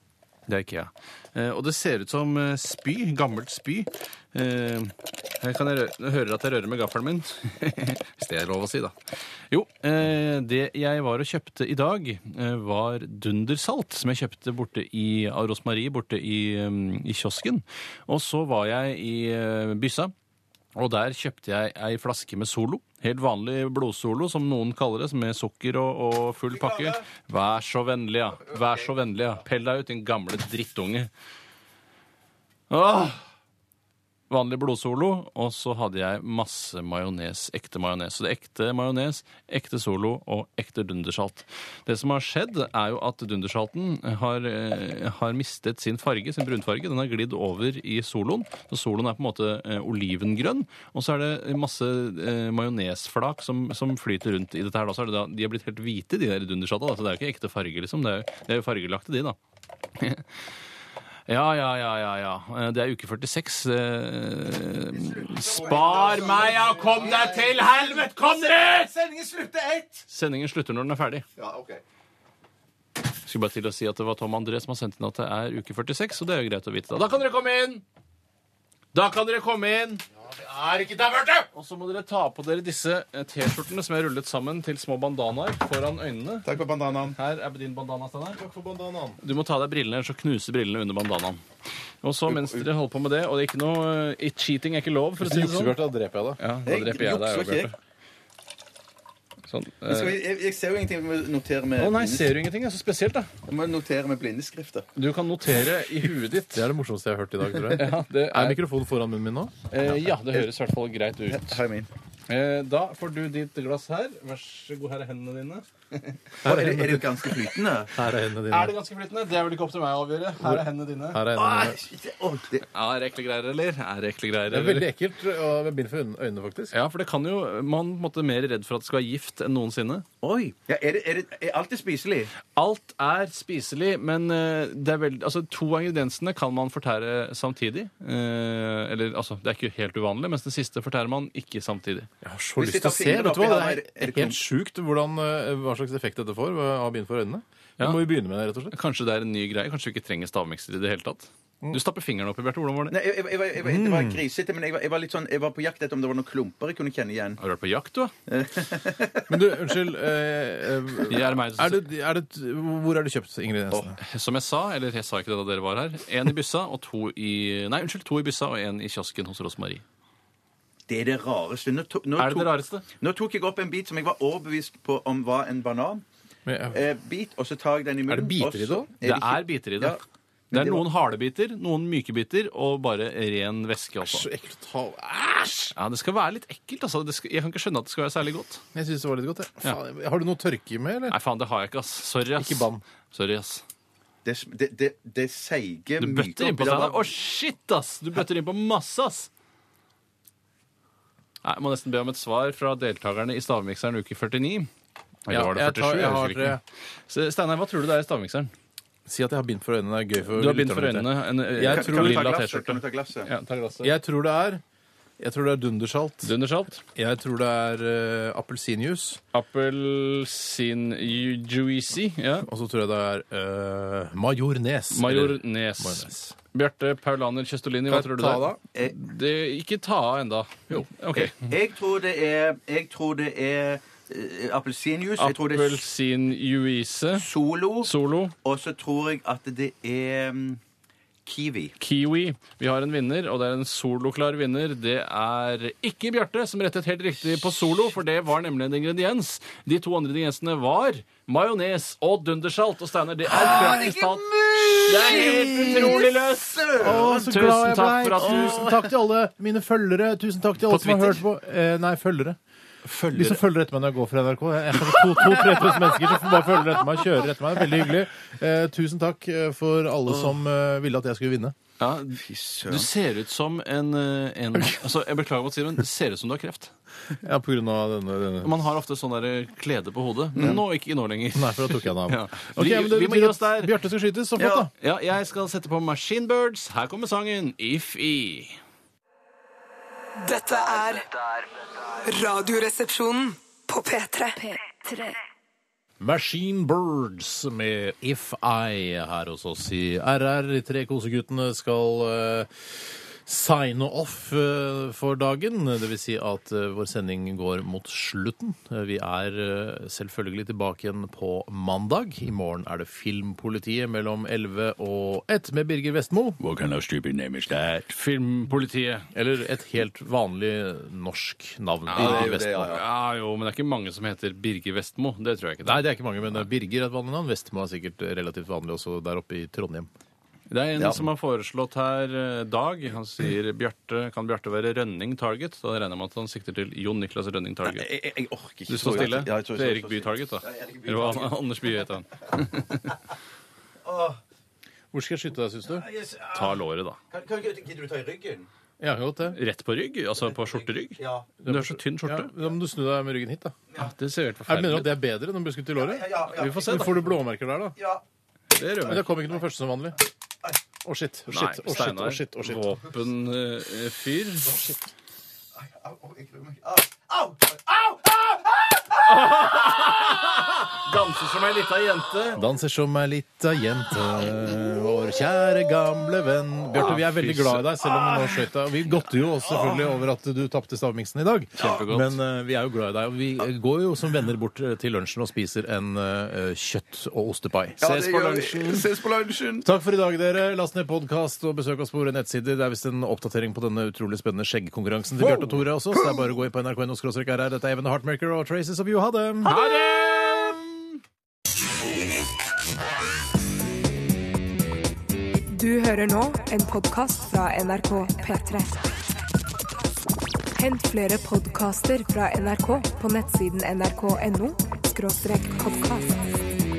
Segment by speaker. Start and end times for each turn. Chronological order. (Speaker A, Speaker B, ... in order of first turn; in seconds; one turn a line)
Speaker A: 0.5-8.9
Speaker A: 9.5-20.1
Speaker A: 20.7-31.1
Speaker B: 26.5-27.0
Speaker A: 32.7-33.2
Speaker A: 34.3-59.4
Speaker A: 60.0-60.2
Speaker A: 61.3-68.9
Speaker B: 64.9-70.0
Speaker A: 70.1-71.2
Speaker B: 71.4-71.8
Speaker A: 73.2-77.8
Speaker A: 78.9-80.0
Speaker C: 80.2-81.5
Speaker A: 81.5-86.5
Speaker B: 86.4-87.2
Speaker A: 87.1-88.4
Speaker C: 88.4-89.2
Speaker A: 89.2-91.4
Speaker A: 92.0-95.8
Speaker B: 92.3-92.7
Speaker C: 95.2-96.4
Speaker A: 96.4-97.8
Speaker B: 96.7-97.7
Speaker A: 99.5-100.2
Speaker B: 99.9-102.2
Speaker A: 101.8-103.3
Speaker B: 103.5-104.9
Speaker A: 104.9-106.7
Speaker C: 106.5-109.5
Speaker A: 107.7-108.6
Speaker A: 109.7-111.6
Speaker B: 111.3-111.9
Speaker A: 112.3-116.2
Speaker B: 116.4-117.9
Speaker C: 116.4-117.2
Speaker C: 117.9-118.7
Speaker A: 118.5-121.2
Speaker C: 120.4-121.8
Speaker B: 121.3-122.6
Speaker A: 122.6-124.9
Speaker C: 124.5-126.7
Speaker A: 126.7-130.0
Speaker B: 130.2-132.3
Speaker A: 132.5-142.1
Speaker C: 142.2-148.8
Speaker B: 142.6-144.4
Speaker A: 148.7-152.9
Speaker B: 152.9-157.4
Speaker C: 153.6-154.2
Speaker A: 157.4-158.1
Speaker B: 158.3-159.7
Speaker C: 159.3-164.0
Speaker A: 161.1-161.9
Speaker A: 164.0-169.8
Speaker B: 170.9-176.0
Speaker A: 172.2-172.8
Speaker C: 176.4-176.8
Speaker B: 176.7-180.0
Speaker C: 178.1-178.9
Speaker A: 179.0-180.0
Speaker B: 180.5-180.8
Speaker A: 180.5-184.3
Speaker C: 184.0-185.8
Speaker A: 185.8-188.6
Speaker C: 188.7-191.2
Speaker A: 191.1-193.6
Speaker C: 192.4-192.8
Speaker B: 194.2-197.1
Speaker A: 196.0-199.3
Speaker A: 201.4-204.7
Speaker A: 205.2-206.6
Speaker C: 205.3-206.6
Speaker A: 207.1-208.5
Speaker C: 209.1-212.3
Speaker A: 210.3-213.9
Speaker B: 211.6-213.3
Speaker C: 213.8-214.6
Speaker C: 215.2-216.3
Speaker A: 216.2-216.8
Speaker C: 216.9-219.2
Speaker A: 219.3-222.5
Speaker C: 222.4-226.2
Speaker A: 224.9-231.3
Speaker C: 227.9-228.6
Speaker B: 231.2-235.8
Speaker A: 235.2-237.3
Speaker B: 237.2-237.9
Speaker A: 237.8-238.3
Speaker B: 238.4-240.6
Speaker B: 241.2-241.7
Speaker A: 241.8-258.7
Speaker B: 253.3-257.3
Speaker C: 255.1-256.1
Speaker C: 256.8-262.4
Speaker B: 258.2-258.9
Speaker A: 260.7-261.2
Speaker A: 262.8-263.4
Speaker C: 263.1-271.5
Speaker B: 264.9-266.4
Speaker A: 271.8-276.7
Speaker B: 272.1-272.9
Speaker C: 277.2-278.6
Speaker A: 278.4-283.7
Speaker C: 281.3-284.7
Speaker B: 284.4-284.7
Speaker A: 284.8-288.6
Speaker D: 290.2-291.1
Speaker D: 292.0-295.1
Speaker C: 296.0-316.4
Speaker B: 316.4-317.3
Speaker A: 317.6-319.1
Speaker C: 319.1-322.8
Speaker A: 321.9-325.8
Speaker B: 321.9-322.8
Speaker C: 325.6-329.9
Speaker A: 330.5-337.9
Speaker B: 330.8-331.1
Speaker B: 337.7-341.5
Speaker A: 338.7-342.9
Speaker B: 343.8-344.2
Speaker C: 344.9-345.9
Speaker B: 345.7-346.6
Speaker A: 346.3-347.0
Speaker B: 347.1-348.5
Speaker C: 348.8-349.4
Speaker A: 349.3-352.3
Speaker B: 350.9-351.3
Speaker C: 351.4-353.6
Speaker A: 353.7-354.9
Speaker C: 354.5-357.8
Speaker B: 355.8-357.1
Speaker A: 356.3-357.1
Speaker B: 357.8-358.0
Speaker A: 358.5-359.1
Speaker C: 358.9-360.0
Speaker C: 360.8-362.7
Speaker A: 361.3-364.6
Speaker B: 365.6-369.5
Speaker A: 369.0-372.4
Speaker C: 372.4-388.8
Speaker A: 376.8-377.7
Speaker B: 377.9-378.4
Speaker B: 379.4-379.9
Speaker A: 381.6-382.2
Speaker B: 387.8-389.7
Speaker A: 387.8-388.3
Speaker C: 389.6-399.5
Speaker B: 395.4-396.2
Speaker A: 399.4-400.8
Speaker E: 405.5-408.8
Speaker E: 410.5-416.2